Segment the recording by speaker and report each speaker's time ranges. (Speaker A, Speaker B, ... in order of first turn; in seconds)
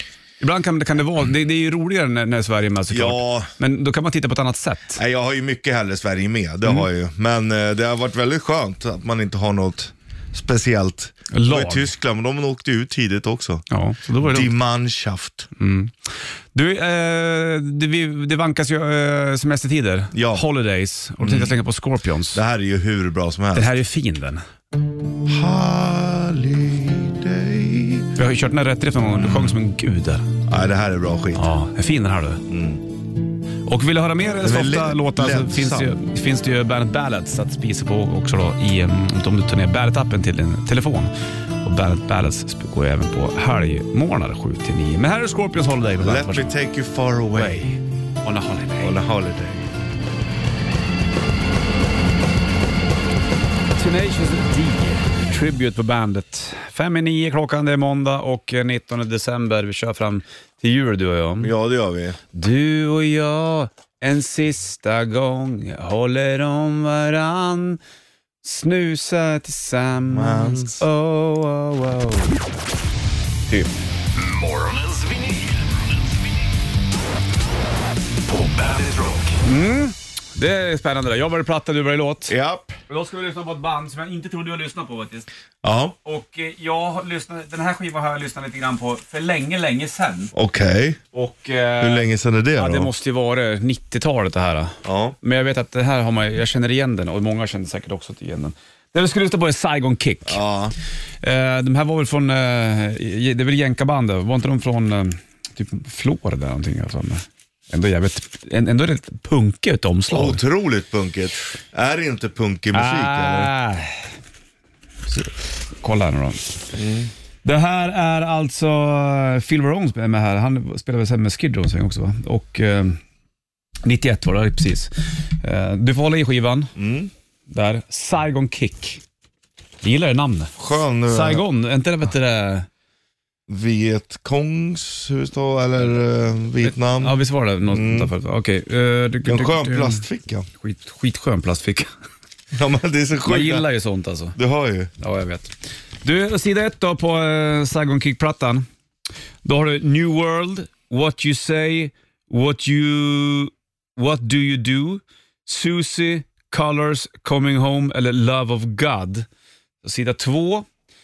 Speaker A: 0.4-5.0, 11.3-11.9, 13.7-14.5, 15.6-22.4, 23.5-24.4, 28.1-30.3, 31.3-32.4, 33.7-41.1, 41.6-46.5, 47.3-49.0, 53.8-61.5, 62.3-67.8, 68.4-72.3, 73.5-73.7, 79.4-82.3, 82.9-85.3, 86.0-90.3, 91.1-100.4, 101.2-110.4, 112.7-114.1, 115.1-116.6, 117.4-123.0, 123.8-126.7, 127.5-129.0, 129.8-132.7, 136.6-140.0, 140.6-141.9, 143.2-144.4, 145.0-145.5, 146.0-148.6, 149.4-159.2, 159.8-160.7
Speaker B: 2.9-3.5, 5.0-13.6, 14.2-15.5, 20.1-20.4, 21.2-21.6, 22.3-23.8, 25.2-28.1, 29.1-29.6, 30.5-31.5, 32.5-32.8, 34.4-35.9, 46.0-47.7, 48.8-49.6, 61.4-62.2, 70.1-70.8, 82.3-82.8, 85.6-85.9, 90.3-91.0, 91.8-92.9, 94.8-95.2, 100.3-100.7, 110.1-113.5, 116.8-117.1, 126.8-127.1, 130.6-131.4, 133.5-138.1, 139.3-140.5, 142.5-143.6, 144.3-144.9
Speaker C: 74.2-75.8, 78.3-79.4